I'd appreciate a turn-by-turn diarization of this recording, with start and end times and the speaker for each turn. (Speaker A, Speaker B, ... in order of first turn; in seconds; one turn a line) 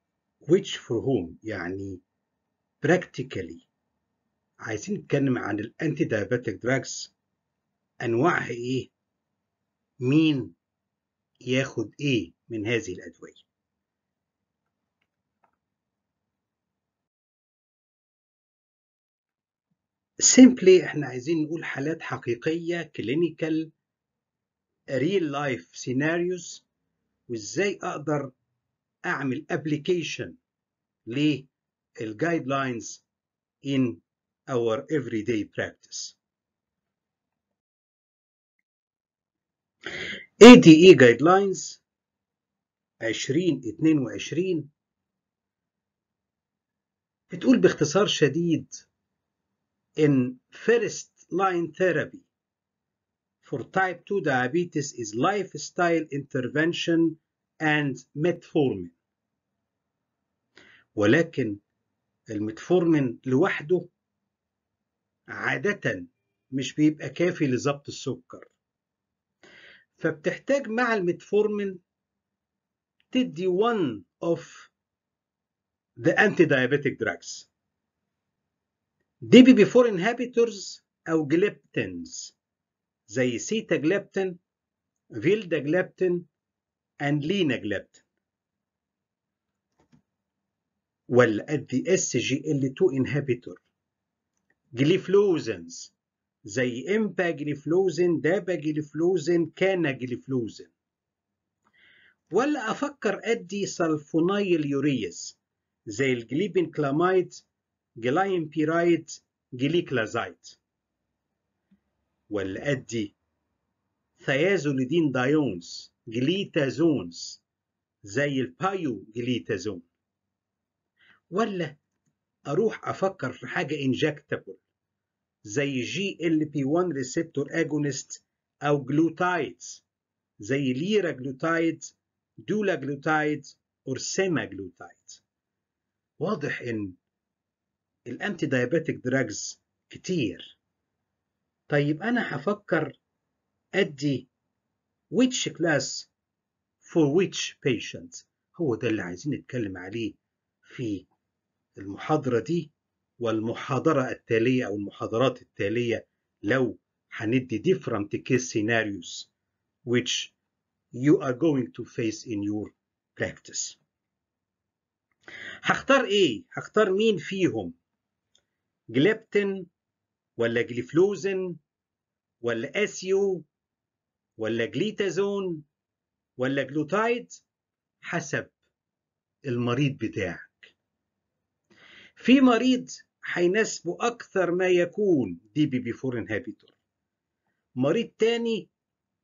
Speaker A: 0.4-2.0
Speaker A: 2.8-3.6
Speaker A: 4.6-7.1
Speaker A: 8.0-8.9
Speaker A: 10.0-10.6
Speaker A: 11.4-13.4
Speaker A: 20.2-23.7
Speaker A: 24.9-26.6
Speaker A: 27.3-28.3
Speaker A: 29.0-30.4
Speaker A: 31.1-33.0
Speaker A: 33.6-36.2
Speaker A: 40.4-41.8
Speaker A: 43.0-44.7
Speaker A: 47.3-48.9
Speaker A: 50.0-52.3
Speaker A: 53.4-58.9
Speaker A: 60.9-61.6
Speaker A: 62.3-63.9
Speaker A: 65.3-68.5
Speaker A: 70.0-71.8
Speaker A: 73.1-74.7
Speaker A: 76.0-77.5
Speaker A: 79.2-82.3
Speaker A: 83.1-84.4
Speaker A: 85.1-86.3
Speaker A: 87.0-88.0
Speaker A: 91.1-93.6
Speaker A: 94.7-95.9
Speaker A: 96.4-100.7
Speaker A: 102.3-105.4
Speaker A: 105.9-107.4
Speaker A: 108.0-110.6
Speaker A: 112.3-113.1
Speaker A: 114.2-117.4
Speaker A: 118.0-119.9
Speaker A: 121.3-121.8
Speaker A: 122.5-124.6
Speaker A: 125.4-129.8
Speaker A: 130.4-135.2
Speaker A: 136.2-137.0
Speaker A: 138.1-140.6
Speaker A: 141.7-143.0
Speaker A: 143.7-144.3
Speaker A: 145.1-146.1
Speaker A: 146.8-151.1
Speaker A: 151.8-159.3
Speaker A: 159.8-160.3
Speaker A: 160.9-163.8
Speaker A: 165.6-167.8
Speaker A: 168.9-169.7
Speaker A: 170.4-171.6
Speaker A: 172.4-173.5
Speaker A: 174.4-175.6
Speaker A: 176.4-177.4
Speaker A: 178.0-178.5
Speaker A: 179.4-180.7
Speaker A: 182.2-186.7
Speaker A: 187.8-188.7